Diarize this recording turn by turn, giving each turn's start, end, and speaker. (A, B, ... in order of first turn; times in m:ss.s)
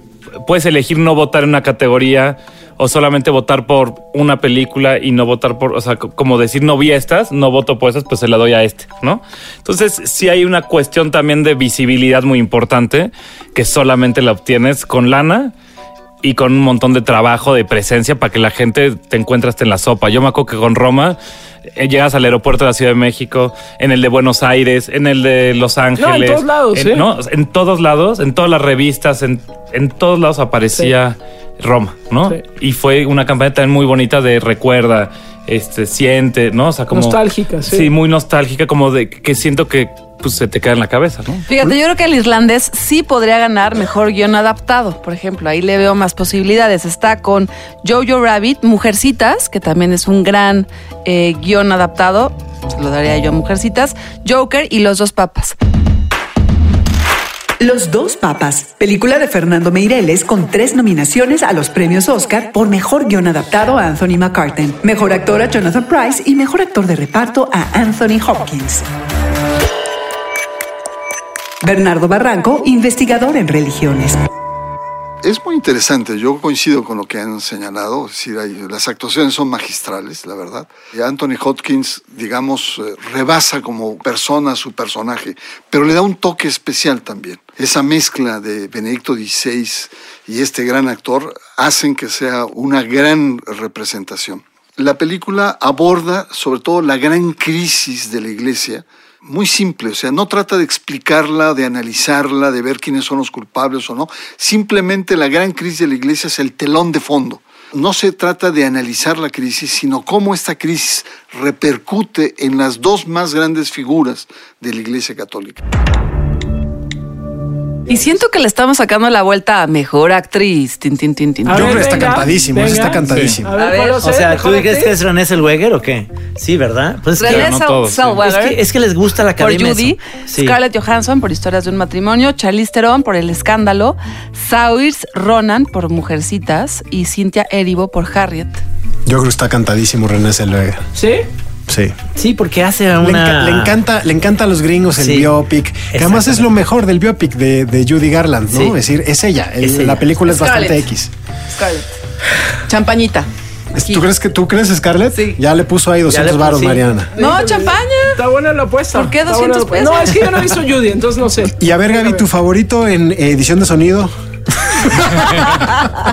0:00.4-0:15.5 A
0:16.2-0:21.2 A
0:21.7-0:41.4 A
0:26.0-0:27.1 B
0:36.9-0:37.9 B
0:41.5-0:55.6 C
0:57.6-1:08.9 D
1:11.6-1:14.2 D
1:15.2-1:55.6 E
1:57.9-2:02.3 C
2:01.4-2:05.0 B
2:01.5-2:03.5 F
2:03.0-2:03.4 A
2:03.5-2:04.0 C
2:04.0-2:07.6 G
2:07.2-2:08.6 C
2:07.2-2:08.2 A
2:08.2-2:10.6 G
2:09.4-2:18.6 C
2:19.0-2:20.8 F
2:21.0-2:21.2 B
2:21.7-2:22.0 F
2:22.1-2:23.7 G
2:23.0-2:31.1 F
2:25.0-2:25.3 G
2:25.9-2:26.5 G
2:29.6-2:30.0 G
2:30.2-2:30.9 C
2:31.5-2:31.9 C
2:32.7-2:33.3 C
2:33.7-2:37.1 F
2:36.1-2:36.8 G
2:37.1-2:42.2 B
2:37.2-2:38.2 C
2:38.9-2:40.2 C
2:41.6-2:44.1 F
2:44.7-2:45.3 F